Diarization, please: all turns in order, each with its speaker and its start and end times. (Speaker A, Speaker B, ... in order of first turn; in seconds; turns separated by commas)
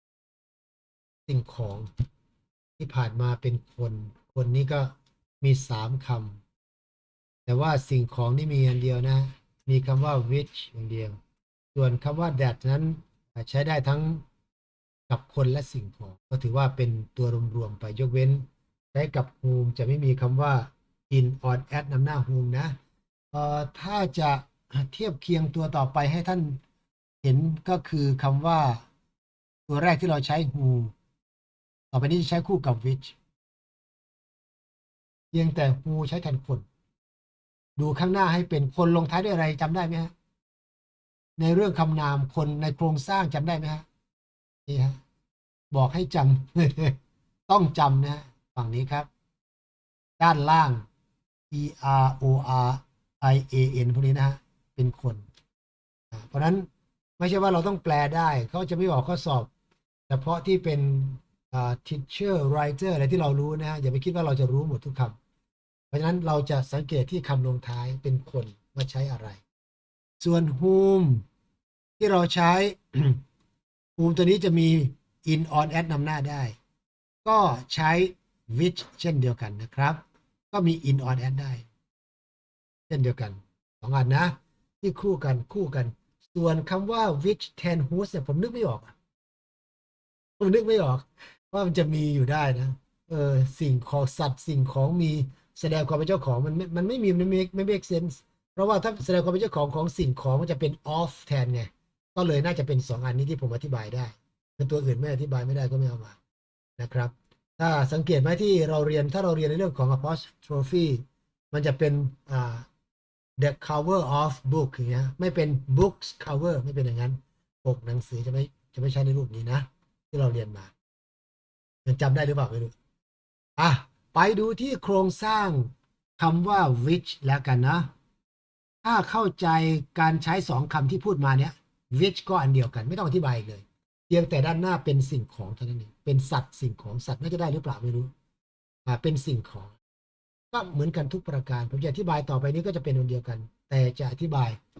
Speaker A: 1.3-1.9, Speaker A: 2.8-6.4, Speaker A: 7.5-11.2, Speaker A: 11.7-14.2, Speaker A: 15.1-22.8, Speaker A: 23.3-26.6, Speaker A: 27.2-28.8, Speaker A: 29.7-30.9, Speaker A: 31.9-33.1, Speaker A: 35.3-36.6, Speaker A: 37.8-40.1, Speaker A: 41.4-43.9, Speaker A: 44.6-45.0, Speaker A: 45.7-47.0, Speaker A: 47.5-49.1, Speaker A: 50.2-50.8, Speaker A: 51.5-55.2, Speaker A: 56.1-56.7, Speaker A: 57.2-59.5, Speaker A: 60.1-65.1, Speaker A: 65.9-69.4, Speaker A: 70.2-71.2, Speaker A: 72.0-73.2, Speaker A: 74.0-76.5, Speaker A: 77.2-81.7, Speaker A: 82.9-88.9, Speaker A: 90.4-106.2, Speaker A: 106.8-112.7, Speaker A: 113.4-120.7, Speaker A: 121.8-122.7, Speaker A: 123.6-127.9, Speaker A: 128.8-138.1, Speaker A: 138.8-139.7, Speaker A: 140.5-144.6